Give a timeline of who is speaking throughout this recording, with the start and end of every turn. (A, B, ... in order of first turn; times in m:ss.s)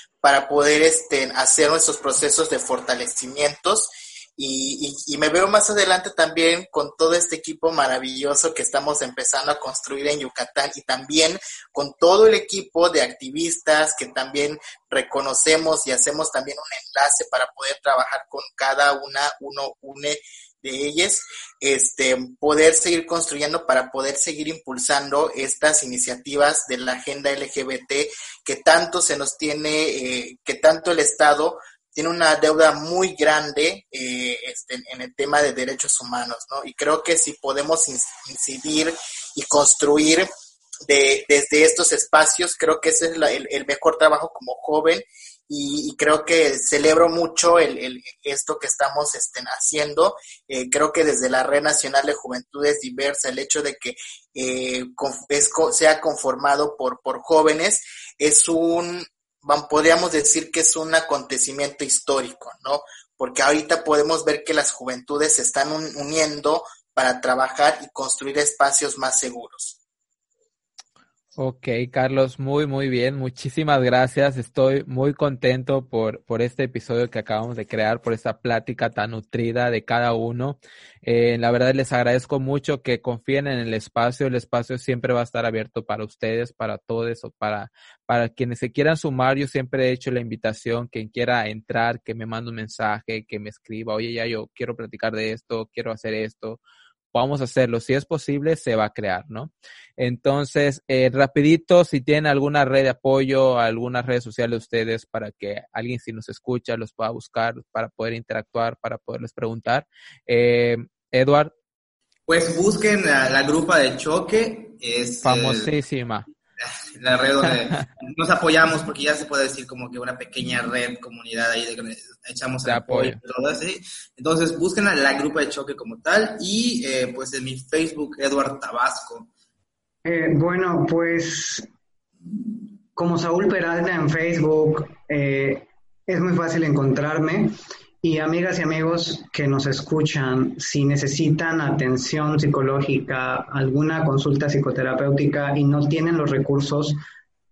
0:00.2-0:40.3 A
0:40.8-1:09.8 A
1:11.4-1:36.6 B
1:37.1-1:51.5 B
1:52.3-1:55.7 C
1:55.2-1:56.3 B
1:56.6-2:09.3 C
2:02.6-2:03.2 B
2:10.0-2:11.7 D
2:13.0-2:27.0 D